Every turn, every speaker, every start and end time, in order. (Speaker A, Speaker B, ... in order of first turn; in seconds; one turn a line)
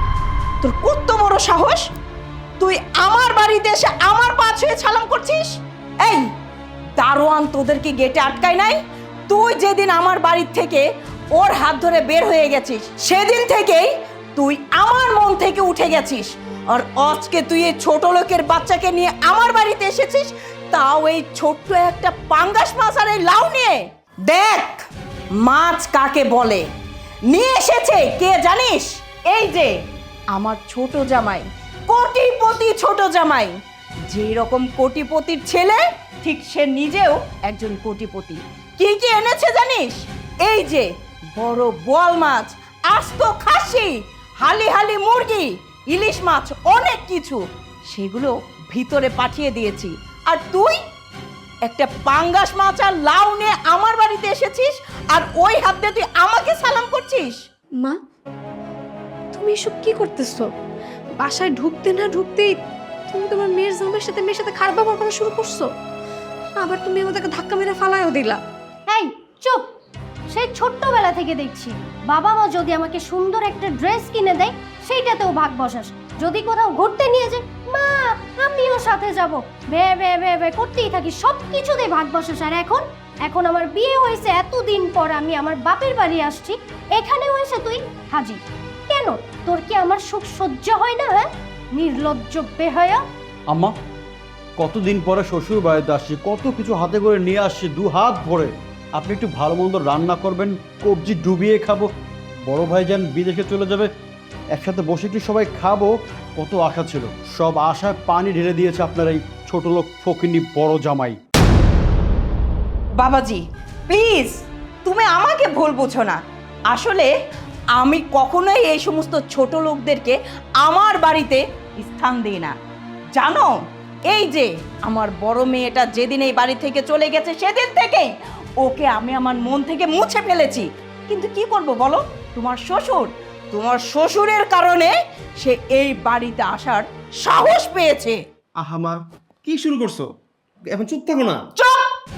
Speaker A: 0.6-1.9
Speaker A: 2.6-6.2
Speaker A: 7.0-10.8
Speaker A: 11.3-24.8
Speaker A: 25.4-26.6
Speaker A: 27.3-29.7
Speaker A: 30.3-33.5
Speaker A: 34.1-47.4
Speaker A: 47.9-50.8
Speaker A: 51.7-57.4
Speaker B: 59.3-60.5
Speaker B: 61.2-65.7
Speaker B: 66.6-68.4
Speaker C: 68.9-69.7
Speaker C: 70.3-93.0
Speaker D: 94.6-101.9
Speaker D: 102.5-103.9
Speaker D: 104.5-111.2
Speaker A: 113.0-116.2
Speaker A: 116.7-117.1
Speaker A: 117.8-122.5
Speaker A: 123.2-123.5
Speaker A: 124.1-128.1
Speaker A: 128.6-138.2
Speaker E: 138.6-140.1
Speaker E: 140.6-141.5
Speaker A: 141.6-141.9